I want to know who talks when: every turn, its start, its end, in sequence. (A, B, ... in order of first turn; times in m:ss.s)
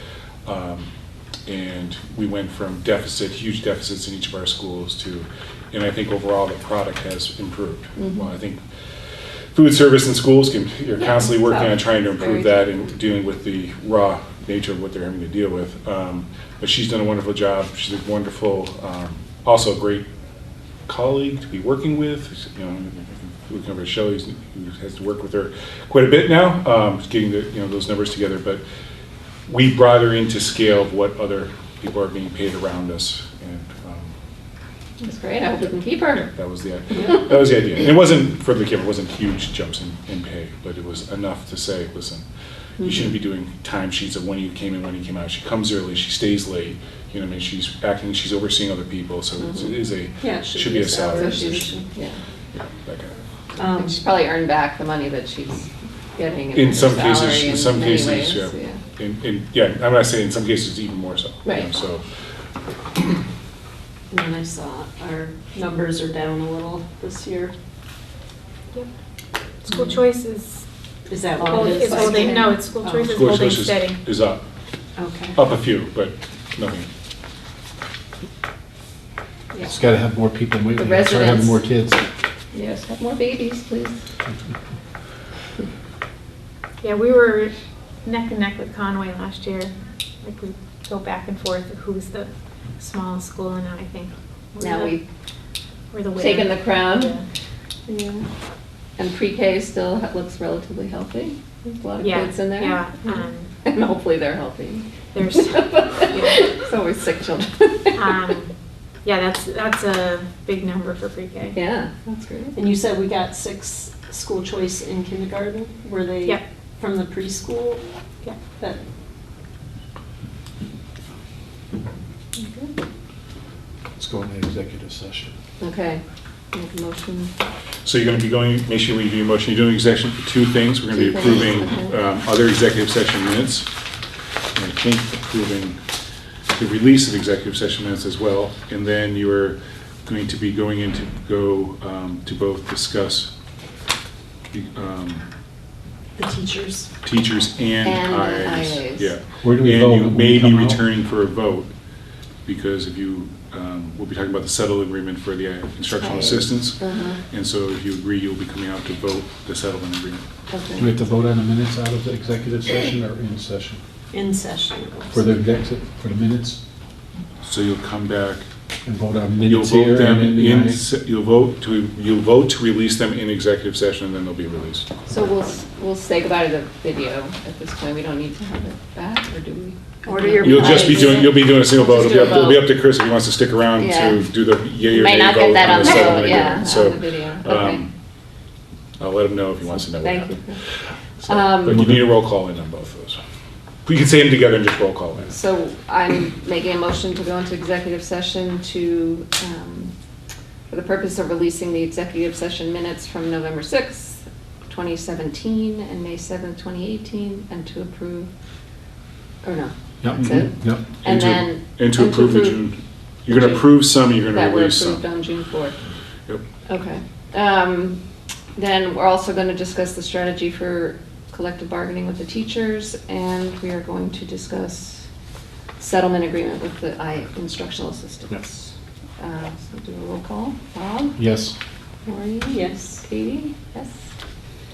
0:00.4-0:00.9 A
0:01.4-0:08.6 A
0:08.0-0:08.3 B
0:09.5-0:20.0 A
0:11.0-0:12.8 B
0:20.9-0:28.6 A
0:29.5-0:34.1 A
0:35.0-0:36.3 B
0:36.3-0:42.2 A
0:42.8-0:43.0 B
0:42.8-0:51.5 A
0:49.4-0:49.7 B
0:50.2-0:51.8 C
0:50.9-0:52.2 B
0:52.5-0:53.1 A
0:53.6-0:54.0 C
0:53.7-0:58.8 B
0:56.5-1:02.0 A
1:01.4-1:01.7 B
1:04.1-1:07.5 C
1:09.6-1:10.6 D
1:11.1-1:13.1 C
1:11.4-1:14.0 D
1:11.4-1:12.5 B
1:13.0-1:14.4 A
1:15.0-1:15.4 C
1:15.3-1:16.9 A
1:19.5-1:19.8 C
1:19.6-1:22.0 E
1:20.8-1:21.6 B
1:22.5-1:23.9 B
1:26.8-1:27.5 D
1:28.0-1:35.0 D
1:34.6-1:35.0 B
1:35.9-1:37.2 D
1:36.1-1:37.2 B
1:37.9-1:38.2 B
1:39.0-1:48.2 B
1:42.0-1:43.5 D
1:45.1-1:45.7 D
1:48.0-1:48.5 D
1:49.0-1:51.6 D
1:51.5-1:52.6 B
1:52.5-1:57.8 C
2:02.4-2:02.7 B
2:04.0-2:05.3 E
2:05.6-2:07.3 B
2:07.8-2:13.7 A
2:10.9-2:11.9 B
2:14.5-2:15.8 A
2:16.5-2:23.3 A
2:24.5-2:25.3 A
2:26.2-2:26.9 C
2:27.0-2:31.7 A
2:27.8-2:29.1 B
2:29.4-2:30.8 E
2:32.4-2:40.2 A
2:35.8-2:37.2 B
2:40.5-2:40.9 B
2:40.8-2:43.8 E
2:44.1-2:45.2 C
2:45.1-2:46.6 E
2:47.4-2:48.4 A
2:48.8-2:50.8 E
2:49.4-2:54.9 A
2:55.1-3:02.7 B
3:00.0-3:01.4 C
3:00.4-3:07.9 A
3:03.8-3:04.3 B
3:04.8-3:07.8 B
3:05.8-3:06.4 D
3:09.0-3:13.2 A
3:09.8-3:10.6 B
3:11.2-3:11.8 B
3:11.7-3:12.0 E
3:13.8-3:15.3 A
3:15.3-3:19.9 B
3:20.7-3:28.3 B
3:29.4-3:32.7 B
3:30.0-3:30.8 E
3:31.0-3:35.0 A
3:33.3-3:35.8 B
3:36.7-3:38.0 B
3:38.5-3:45.0 B
3:45.8-3:51.2 B
3:51.2-3:51.5 E
3:52.0-3:54.0 B
3:52.4-3:53.0 C